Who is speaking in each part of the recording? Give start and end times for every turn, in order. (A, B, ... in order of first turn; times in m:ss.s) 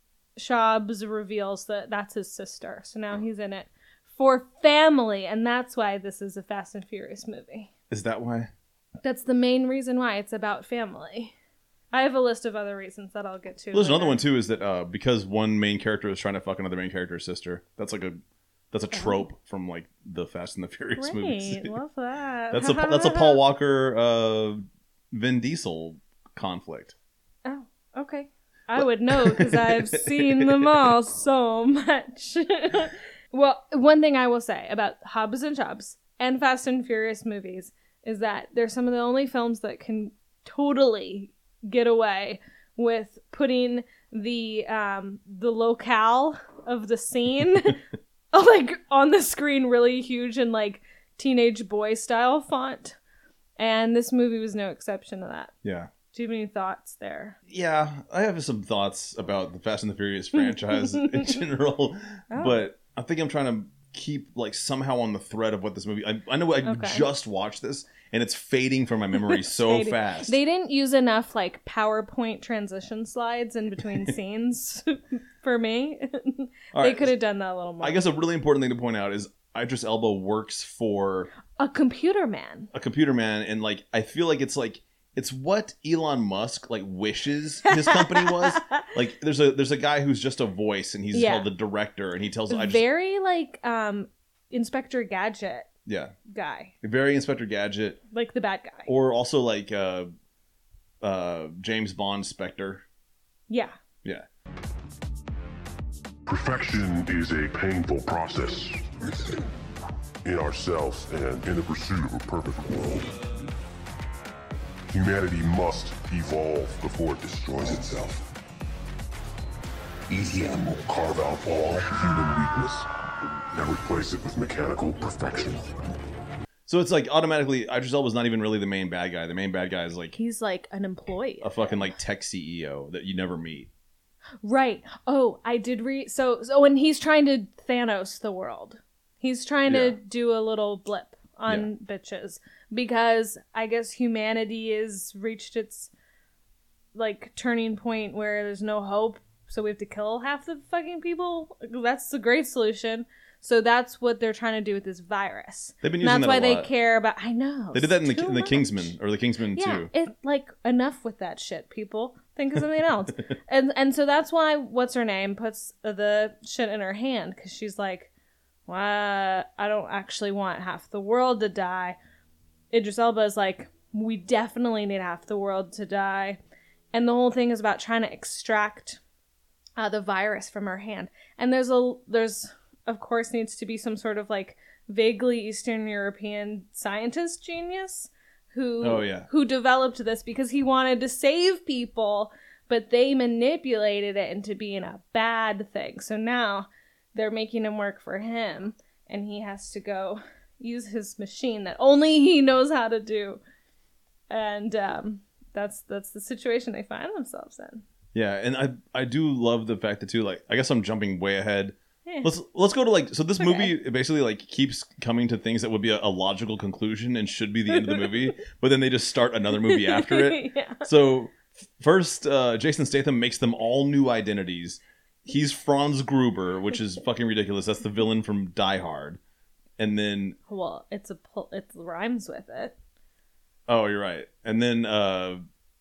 0:00.4-0:07.7 A
0:07.9-0:08.5 B
0:09.0-0:11.3 A
0:11.9-0:14.2 A
0:13.7-0:18.2 B
0:18.7-0:21.7 B
0:18.9-0:19.2 A
0:21.0-0:23.4 A
0:22.5-0:27.0 B
0:27.4-0:47.8 A
0:28.8-0:30.7 B
0:48.3-0:53.0 A
0:53.6-0:55.5 A
0:55.6-0:55.9 B
0:56.1-0:57.4 A
0:57.5-1:10.4 B
1:00.4-1:01.4 A
1:02.3-1:02.6 A
1:06.6-1:07.1 A
1:09.2-1:18.0 A
1:13.8-1:14.1 B
1:16.7-1:17.1 B
1:17.8-1:21.3 B
1:21.6-1:22.7 A
1:22.7-1:32.8 B
1:27.7-1:28.8 A
1:31.1-1:31.5 A
1:32.5-1:35.7 A
1:35.9-1:36.1 B
1:36.3-1:36.7 A
1:36.8-1:38.0 B
1:38.1-1:38.9 A
1:38.9-1:40.1 B
1:41.0-1:42.8 B
1:43.5-1:43.7 A
1:46.3-1:49.4 C
1:50.2-1:53.1 C
1:54.9-1:58.2 C
2:00.1-2:05.8 C
2:06.7-2:10.2 B
2:10.2-2:11.9 A
2:11.4-2:13.7 B
2:14.4-2:25.9 A
2:19.7-2:20.0 B
2:27.0-2:38.9 A
2:35.8-2:36.7 B
2:37.7-2:39.9 B
2:39.6-2:48.1 A
2:48.7-2:52.0 A
2:52.7-2:56.4 A
2:56.9-2:59.0 A
2:59.8-3:23.4 A
3:08.8-3:09.3 B
3:24.3-3:27.8 A
3:28.1-3:49.2 B
3:33.4-3:33.7 A
3:37.7-3:38.3 A
3:39.6-3:40.9 A
3:49.8-3:50.4 B
3:50.5-3:52.8 A
3:53.7-3:55.4 B